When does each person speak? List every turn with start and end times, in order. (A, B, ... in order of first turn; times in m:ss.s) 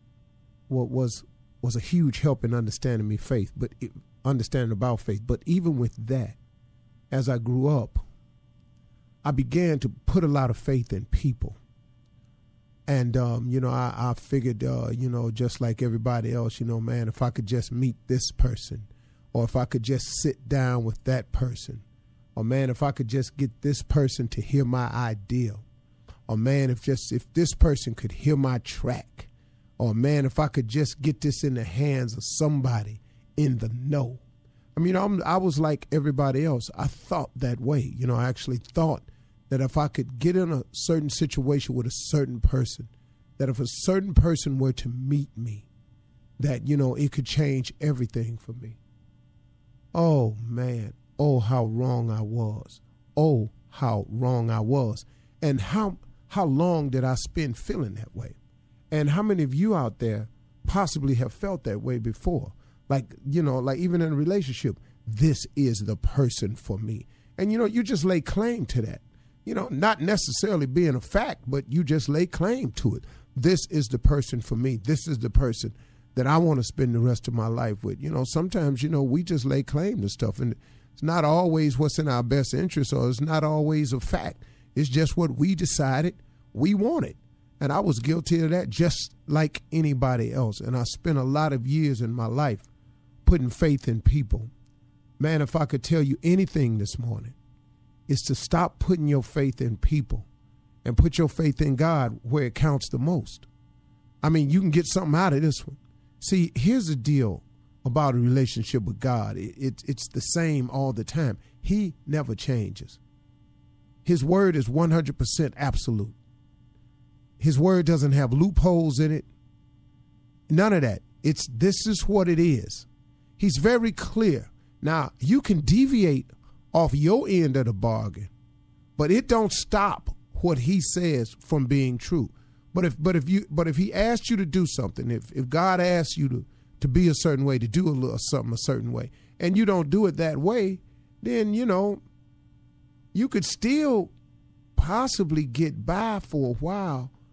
0:00.7-0:06.4 A
0:07.1-0:08.0 A
0:09.2-0:11.6 A
0:12.9-0:21.8 A
0:22.3-0:25.6 A
0:26.3-0:34.2 A
0:34.7-0:45.7 A
0:46.4-0:48.8 A
0:49.9-0:58.4 A
0:58.9-1:32.7 A
1:33.2-1:34.5 A
1:35.2-1:37.3 A
1:38.1-1:40.3 A
1:40.8-1:43.4 A
1:44.2-1:53.0 A
1:54.0-1:56.2 A
1:57.4-1:59.3 A
2:00.5-2:02.9 A
2:03.4-2:08.3 A
2:09.0-2:22.0 A
2:23.1-2:24.1 A
2:24.8-2:27.1 A